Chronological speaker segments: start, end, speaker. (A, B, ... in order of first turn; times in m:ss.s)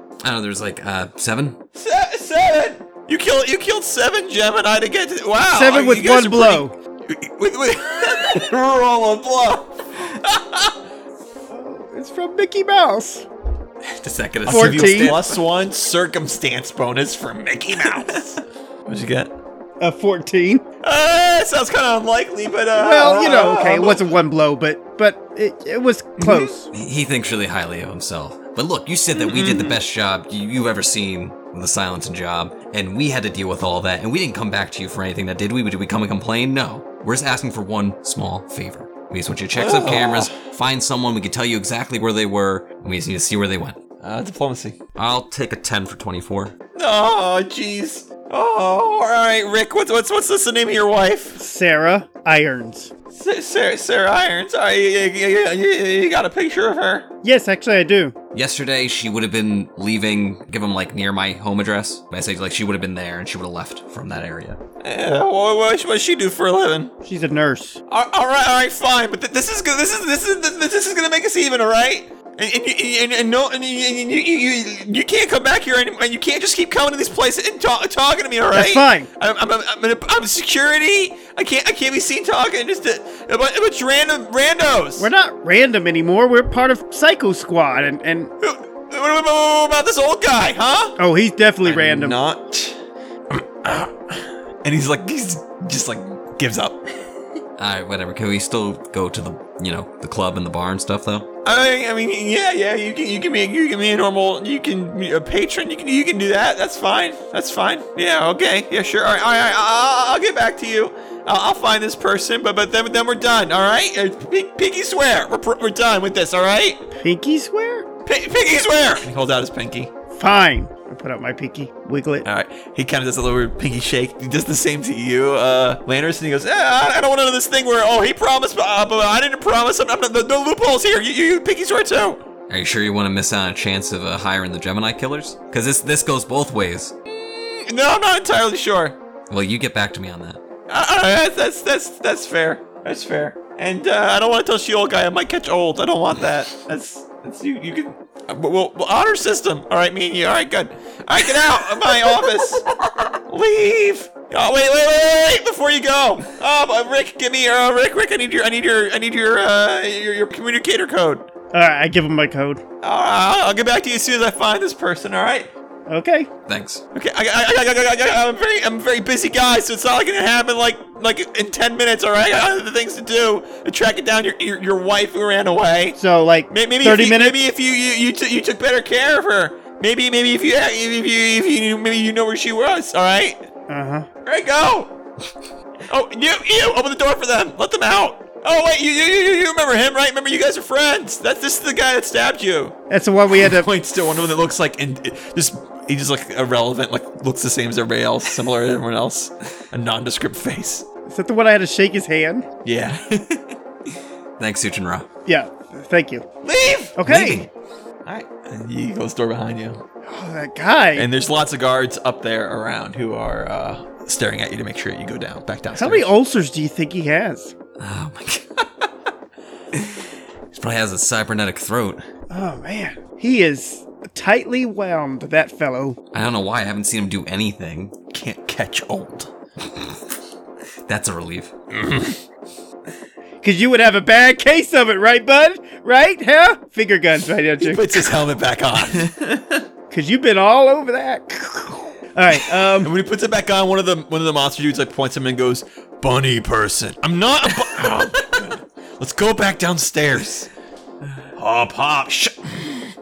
0:00.2-0:01.6 A
0:01.7-0:10.7 B
0:05.5-0:06.7 C
0:11.5-0:13.3 C
0:13.8-0:15.4 A
0:14.4-0:19.3 B
0:14.5-0:15.1 C
0:19.8-0:20.6 C
0:20.8-0:24.1 B
0:22.8-0:26.6 C
0:26.2-0:26.7 B
0:26.7-0:43.8 A
0:29.2-0:29.8 B
0:39.5-0:40.3 B
0:44.0-0:44.8 B
0:45.0-0:46.5 A
0:46.7-0:51.4 B
0:51.4-0:52.9 C
0:53.1-0:57.1 B
0:57.2-0:58.2 C
0:58.3-1:04.6 A
1:04.8-1:06.9 B
1:07.0-1:07.8 C
1:07.9-1:25.1 B
1:18.5-1:19.1 C
1:25.0-1:28.3 C
1:28.4-1:31.0 B
1:31.0-1:32.2 C
1:31.6-1:32.8 B
1:33.3-1:36.8 B
1:37.6-1:41.3 A
1:41.4-1:56.8 B
1:56.9-1:57.9 C
1:58.0-1:59.9 B
2:00.1-2:02.2 C
2:02.2-2:12.2 B
2:12.5-2:16.9 A
2:17.1-2:19.0 B
2:19.3-2:20.4 A
2:20.7-2:32.7 B
2:33.3-2:41.3 B
2:41.5-2:42.6 C
2:42.8-2:45.5 B
2:45.9-2:46.3 C
2:46.5-2:46.8 A
2:46.9-2:56.0 B
2:56.0-2:57.4 C
2:56.5-3:03.4 B
3:03.7-3:04.1 C
3:04.2-3:05.0 B
3:05.8-3:12.8 B
3:12.9-3:13.7 C
3:13.3-3:20.8 B
3:21.1-3:22.5 C
3:22.6-3:23.2 B
3:24.4-3:25.1 A
3:25.2-3:26.2 C
3:26.4-3:27.0 B
3:27.0-3:27.5 C
3:27.1-3:27.4 A
3:28.0-3:29.8 B
3:30.0-3:31.1 C
3:30.9-3:36.1 B
3:35.7-3:37.5 C
3:37.8-3:38.7 A
3:39.7-3:42.0 A
3:42.3-3:46.0 C
3:46.1-3:47.9 A
3:48.1-3:49.3 B
3:50.9-3:51.5 A
3:51.7-3:52.2 B
3:53.4-3:58.1 C
3:57.6-3:59.1 B
3:58.9-3:59.6 A
3:59.9-4:02.9 C
4:02.6-4:10.5 B
4:11.4-4:12.8 B